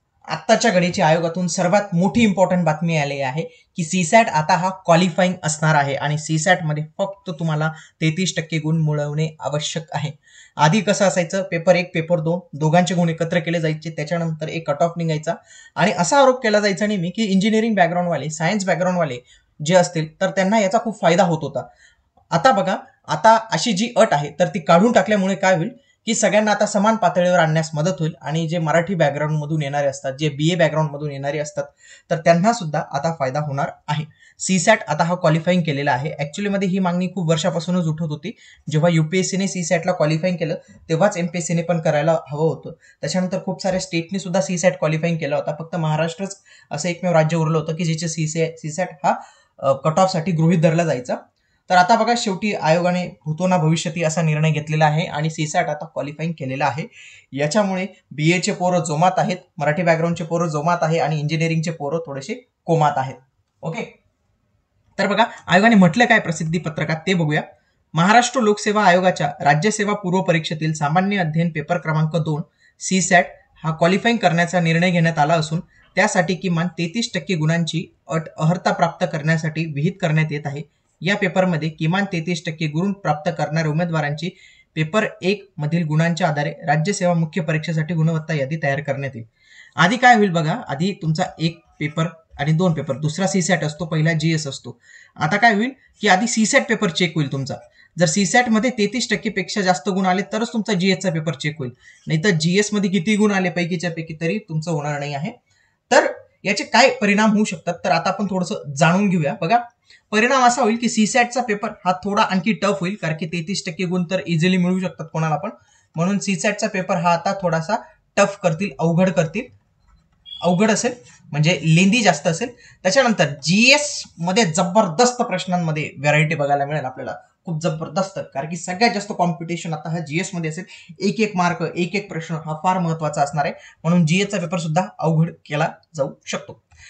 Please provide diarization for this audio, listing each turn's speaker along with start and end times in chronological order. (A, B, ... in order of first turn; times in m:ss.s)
0:00.3-0:21.7 A
0:22.3-1:03.9 A
1:05.0-1:29.3 A
1:29.8-1:45.4 A
1:45.9-1:59.5 A
2:00.4-2:16.6 A